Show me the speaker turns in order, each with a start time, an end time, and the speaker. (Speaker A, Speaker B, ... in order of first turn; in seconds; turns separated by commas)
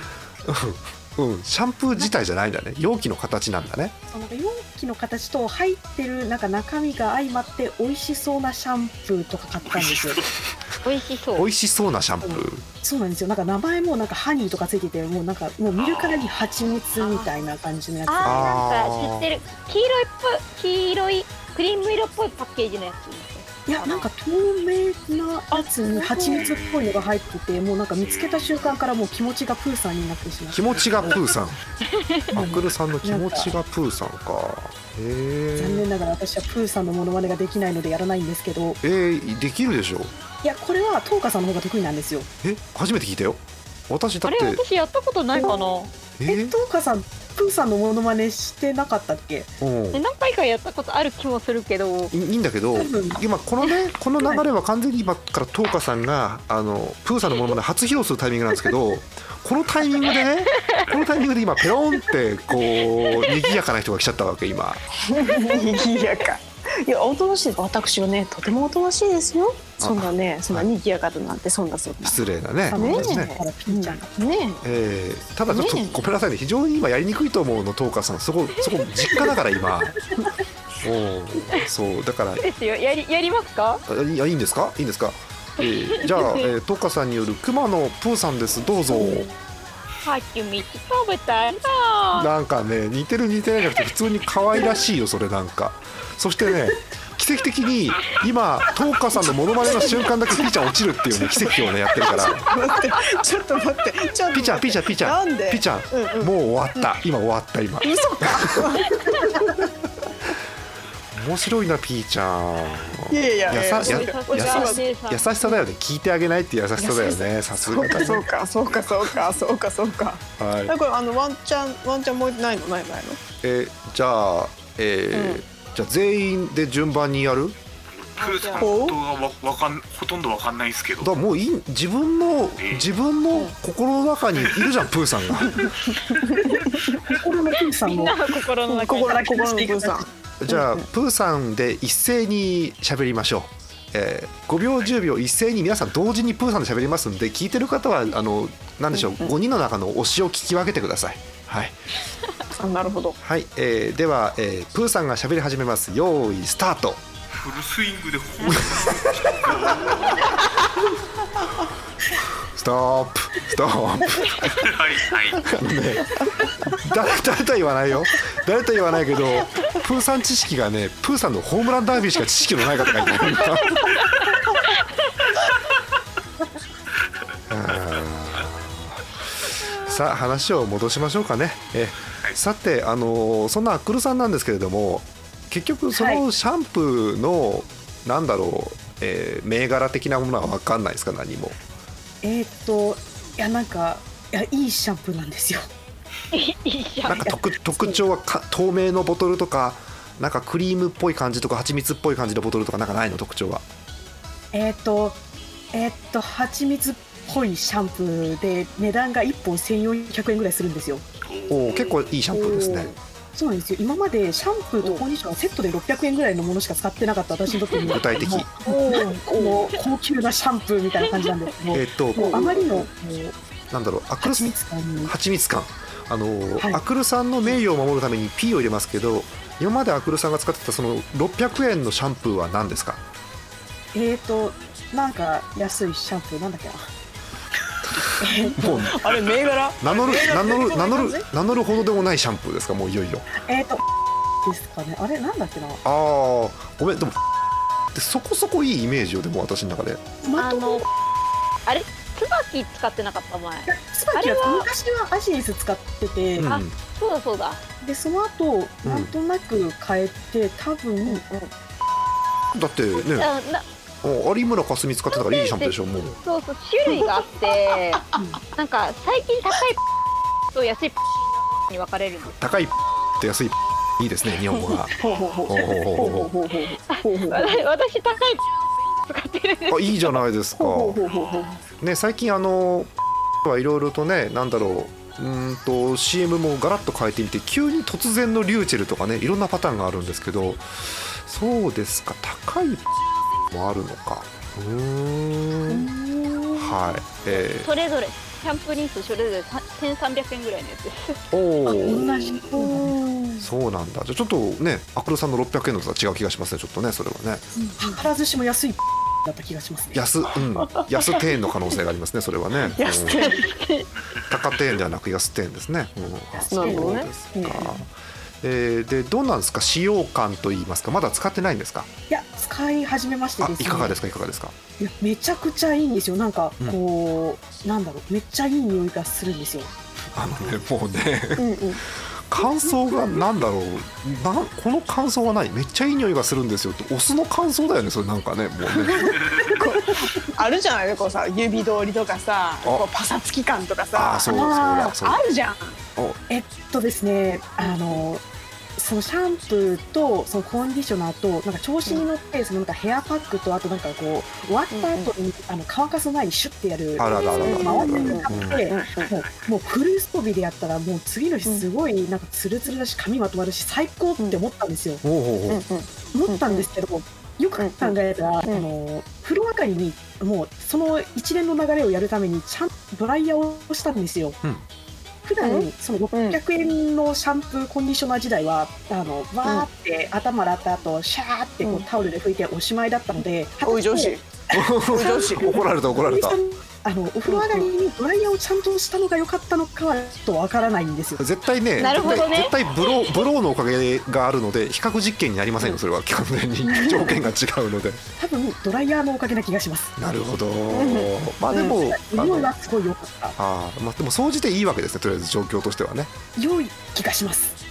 Speaker A: 0.4-3.9, Speaker B: 4.1-10.2, Speaker C: 9.6-10.2, Speaker D: 10.8-11.5, Speaker A: 11.3-12.6, Speaker B: 12.2-18.6, Speaker C: 15.8-16.3, Speaker D: 17.0-17.3, Speaker D: 18.1-24.1, Speaker A: 18.2-19.3, Speaker B: 23.7-31.2, Speaker D: 25.5-26.4, Speaker C: 26.3-27.1, Speaker C: 27.9-28.8, Speaker A: 30.5-31.6, Speaker D: 31.9-32.3, Speaker A: 32.3-35.9, Speaker B: 32.3-33.5, Speaker B: 35.5-38.8, Speaker A: 38.8-40.1, Speaker B: 40.4-42.3, Speaker A: 42.4-44.6, Speaker D: 44.2-45.9, Speaker B: 45.3-45.6, Speaker A: 46.2-46.6, Speaker B: 46.3-49.5, Speaker A: 49.6-50.0, Speaker D: 49.9-52.1, Speaker A: 52.1-64.8, Speaker B: 52.7-53.2, Speaker D: 60.6-60.9, Speaker E: 65.0-72.2, Speaker A: 69.8-70.7, Speaker A: 72.0-73.3, Speaker B: 72.7-74.1, Speaker E: 72.7-74.6, Speaker A: 74.6-80.0, Speaker E: 75.5-76.0, Speaker D: 78.6-78.8, Speaker A: 80.8-82.4, Speaker D: 82.4-83.8, Speaker A: 83.9-89.3, Speaker D: 85.9-86.5, Speaker D: 90.0-92.3, Speaker A: 92.1-102.5, Speaker E: 99.6-100.5, Speaker E: 101.1-106.9, Speaker A: 104.3-108.7, Speaker E: 107.8-109.7, Speaker A: 111.1-118.2, Speaker E: 113.1-114.8, Speaker D: 113.7-115.3, Speaker E: 116.8-123.2, Speaker A: 120.4-120.7, Speaker A: 123.4-127.6, Speaker E: 125.1-125.4, Speaker C: 127.9-131.1, Speaker D: 128.2-128.7, Speaker E: 128.2-129.0, Speaker A: 131.0-135.6, Speaker C: 132.6-132.9, Speaker E: 135.4-137.0, Speaker B: 137.1-138.2, Speaker D: 137.8-139.4, Speaker E: 138.7-140.8, Speaker B: 139.0-140.0, Speaker A: 140.4-151.8, Speaker E: 148.9-149.3, Speaker E: 152.6-153.2, Speaker A: 153.2-157.0, Speaker C: 157.3-160.4, Speaker A: 158.4-159.4, Speaker A: 162.5-164.7, Speaker C: 164.4-165.4, Speaker A: 165.4-174.0, Speaker D: 173.7-174.2, Speaker A: 177.5-191.5, Speaker B: 185.9-186.2, Speaker B: 192.2-195.6, Speaker D: 196.3-197.3, Speaker A: 197.0-203.6, Speaker B: 204.5-205.2, Speaker B: 205.7-211.0, Speaker C: 211.3-212.2, Speaker A: 211.5-212.9, Speaker E: 212.4-212.8, Speaker B: 213.3-223.3, Speaker A: 217.9-218.6, Speaker E: 218.6-219.8, Speaker A: 221.7-222.4, Speaker E: 222.1-222.8, Speaker A: 223.7-233.0, Speaker B: 224.2-225.1, Speaker B: 233.9-236.8, Speaker B: 238.2-238.9, Speaker E: 238.2-241.2, Speaker A: 238.6-238.9, Speaker C: 239.1-239.5, Speaker A: 239.8-243.3, Speaker B: 243.4-243.8, Speaker B: 244.4-245.8, Speaker A: 245.8-247.2, Speaker A: 247.9-250.0, Speaker B: 250.2-250.9, Speaker D: 250.4-250.8, Speaker D: 251.7-254.7, Speaker B: 253.7-256.5, Speaker A: 256.4-256.7, Speaker D: 256.4-257.6, Speaker B: 257.8-261.2, Speaker A: 258.8-259.1, Speaker E: 261.1-261.5, Speaker A: 262.5-263.3, Speaker D: 263.0-263.6, Speaker A: 264.0-266.1, Speaker D: 265.1-269.8, Speaker E: 266.9-268.4, Speaker D: 270.5-271.0, Speaker D: 271.7-272.4, Speaker A: 272.2-274.9, Speaker E: 274.6-277.6, Speaker C: 275.0-275.3, Speaker A: 275.5-276.3, Speaker D: 276.9-278.4, Speaker D: 279.1-280.2, Speaker A: 279.7-281.0, Speaker E: 280.6-281.6, Speaker C: 281.0-281.5, Speaker A: 281.8-282.9, Speaker A: 283.4-292.8, Speaker A: 293.5-295.9, Speaker E: 295.7-296.7, Speaker A: 296.6-297.7, Speaker D: 297.6-301.2, Speaker A: 301.3-302.1, Speaker B: 301.7-303.0, Speaker E: 302.5-303.4, Speaker A: 303.4-307.4, Speaker B: 307.8-310.0, Speaker A: 309.9-313.3, Speaker E: 310.4-311.2, Speaker E: 312.6-313.6, Speaker D: 313.2-313.8, Speaker A: 314.3-321.9, Speaker E: 316.5-317.2, Speaker B: 316.5-317.8, Speaker B: 322.1-323.9, Speaker A: 323.4-324.5, Speaker B: 324.8-329.7, Speaker A: 330.1-331.5, Speaker E: 331.4-331.8, Speaker A: 332.3-339.4, Speaker E: 338.7-345.8, Speaker A: 343.9-345.2, Speaker B: 344.3-344.9, Speaker B: 346.3-348.2, Speaker B: 348.8-365.0, Speaker E: 354.7-355.1, Speaker A: 357.0-358.6, Speaker E: 357.4-359.1, Speaker C: 359.0-359.6, Speaker A: 365.0-365.6, Speaker E: 365.5-366.7, Speaker B: 366.1-374.4, Speaker E: 367.6-368.7, Speaker B: 375.2-391.2, Speaker E: 375.4-376.4, Speaker E: 383.6-384.2, Speaker A: 384.5-386.4, Speaker E: 384.9-385.6, Speaker E: 387.3-387.7, Speaker A: 391.2-398.0, Speaker D: 391.8-392.6, Speaker E: 396.7-397.2, Speaker B: 398.2-399.9, Speaker A: 400.0-402.5, Speaker E: 400.7-401.8, Speaker B: 401.5-403.4, Speaker A: 403.4-406.1, Speaker B: 406.4-407.6